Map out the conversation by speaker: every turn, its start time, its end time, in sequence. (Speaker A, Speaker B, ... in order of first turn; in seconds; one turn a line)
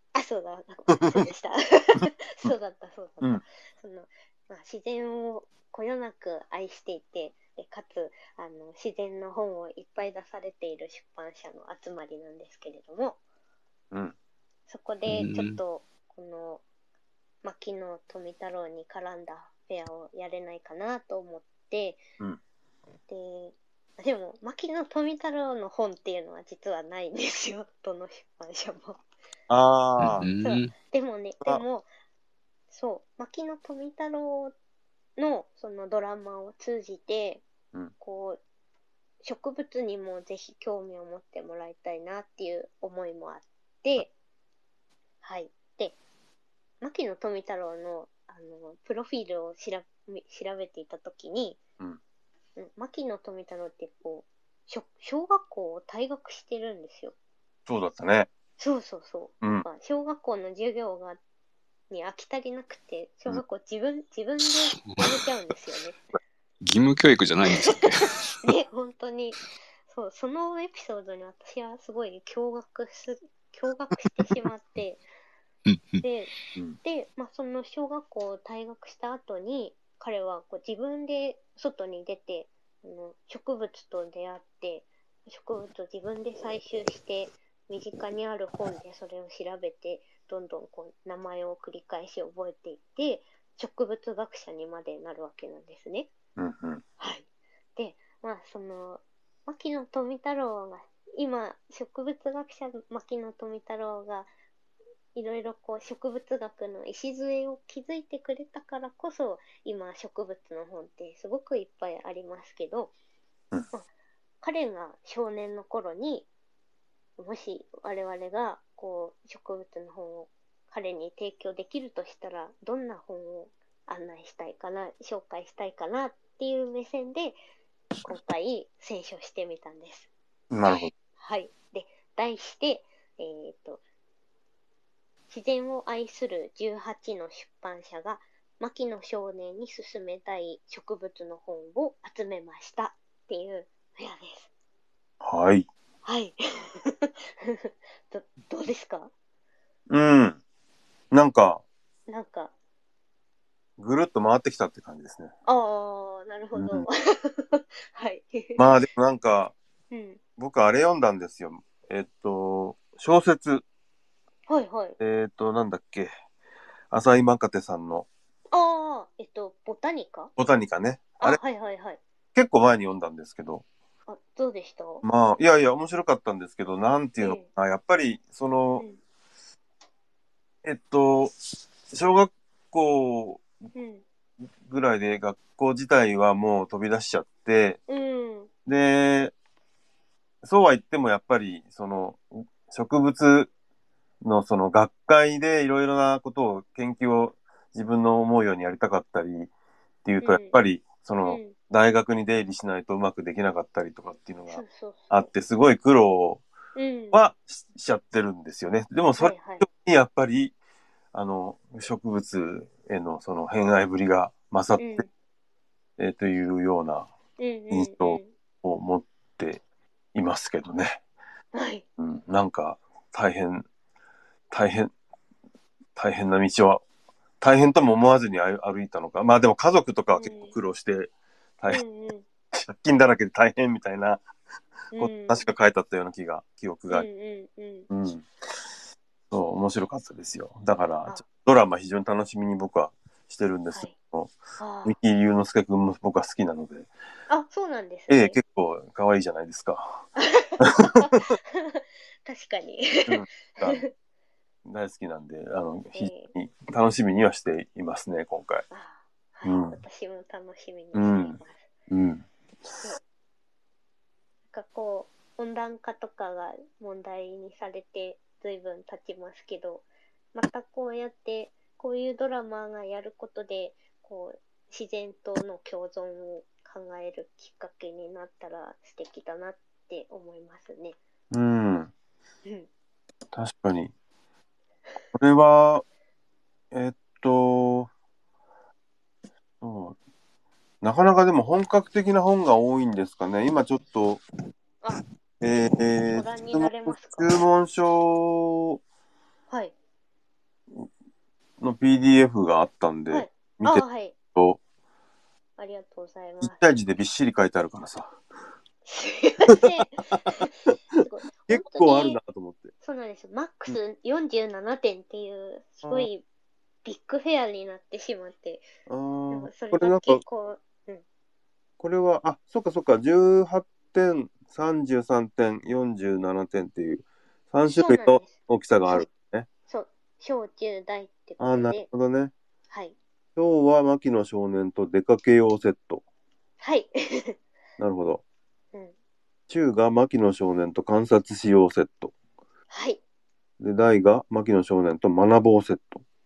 Speaker A: 0.1-13.2
Speaker B: 0.9-1.2
Speaker A: 14.7-16.6
Speaker C: 15.1-15.6
Speaker A: 17.4-22.0
Speaker A: 23.1-29.0
Speaker B: 29.5-30.3
Speaker C: 30.0-30.7
Speaker A: 30.4-31.9
Speaker A: 32.7-34.5
Speaker A: 35.2-37.4
Speaker A: 38.0-38.4
Speaker A: 39.2-44.1
Speaker A: 45.2-46.0
Speaker A: 46.8-51.6
Speaker A: 52.6-57.1
Speaker B: 57.7-58.3
Speaker A: 58.6-61.2
Speaker A: 61.9-66.0
Speaker C: 66.6-68.2
Speaker A: 67.5-75.0
Speaker C: 75.7-76.0
Speaker A: 76.0-96.1
Speaker B: 96.4-96.8
Speaker A: 97.0-104.3
Speaker A: 105.2-112.9
Speaker A: 114.4-116.3
Speaker A: 117.2-127.4
Speaker A: 128.0-130.1
Speaker B: 130.5-130.9
Speaker A: 131.2-133.8
Speaker A: 135.3-144.5
Speaker B: 145.2-145.7
Speaker A: 146.1-149.1
Speaker B: 149.9-150.4
Speaker B: 151.1-151.6
Speaker A: 152.1-152.5
Speaker B: 153.8-155.3
Speaker A: 155.5-158.8
Speaker B: 156.6-156.9
Speaker B: 158.6-159.5
Speaker A: 159.9-160.2
Speaker B: 160.4-163.6
Speaker A: 164.5-165.0
Speaker B: 165.0-166.1
Speaker B: 166.9-168.1
Speaker A: 168.5-170.3
Speaker B: 170.4-171.4
Speaker A: 171.2-172.0
Speaker B: 172.3-173.6
Speaker A: 174.1-175.1
Speaker B: 175.0-178.8
Speaker A: 177.2-177.5
Speaker B: 180.6-181.3
Speaker B: 181.9-183.4
Speaker A: 183.8-184.0
Speaker B: 184.7-187.8
Speaker A: 187.9-188.5
Speaker B: 188.7-189.3
Speaker B: 190.4-193.5
Speaker B: 194.2-199.5
Speaker B: 200.0-206.4
Speaker A: 200.2-200.6
Speaker A: 201.2-201.6
Speaker A: 204.5-205.3
Speaker A: 206.8-207.2
Speaker B: 207.1-210.6
Speaker A: 209.2-209.7
Speaker B: 211.1-215.0
Speaker A: 214.8-215.1
Speaker B: 216.0-217.1
Speaker A: 217.4-218.3
Speaker B: 217.7-219.6
Speaker B: 220.1-221.0
Speaker A: 221.5-221.8
Speaker B: 222.0-223.7
Speaker B: 224.5-224.9
Speaker B: 225.9-226.8
Speaker B: 227.4-231.8
Speaker A: 230.1-230.6
Speaker A: 231.7-232.2
Speaker B: 232.5-234.2
Speaker A: 234.9-235.5
Speaker B: 235.0-237.1
Speaker A: 236.9-237.9
Speaker B: 237.9-238.3
Speaker B: 239.3-246.9
Speaker A: 244.6-245.0
Speaker A: 247.3-248.4
Speaker B: 248.1-250.1
Speaker A: 250.2-253.9
Speaker B: 250.6-251.2
Speaker B: 253.1-253.8
Speaker B: 254.7-258.6
Speaker A: 255.9-256.3
Speaker A: 258.7-261.7
Speaker B: 259.4-259.8
Speaker B: 260.9-261.4
Speaker B: 261.9-262.9
Speaker A: 264.5-281.0
Speaker B: 281.3-281.9
Speaker B: 283.3-283.9
Speaker B: 285.1-285.9
Speaker B: 286.7-287.9
Speaker B: 289.6-290.0
Speaker B: 290.8-294.2
Speaker B: 295.4-298.8
Speaker A: 295.6-297.4
Speaker B: 301.6-304.6
Speaker A: 303.1-304.1
Speaker A: 305.6-306.6
Speaker B: 306.4-308.1
Speaker A: 308.9-312.2
Speaker B: 309.5-312.7
Speaker A: 312.8-316.2
Speaker B: 315.8-316.1
Speaker A: 316.9-318.7
Speaker B: 318.9-320.2
Speaker A: 319.3-321.0
Speaker B: 321.8-329.5
Speaker A: 327.7-328.4
Speaker A: 329.7-331.9
Speaker B: 331.4-332.3
Speaker B: 333.4-336.0
Speaker A: 336.6-337.4
Speaker B: 337.8-338.2
Speaker B: 339.5-342.1
Speaker A: 342.7-343.0
Speaker B: 343.6-346.0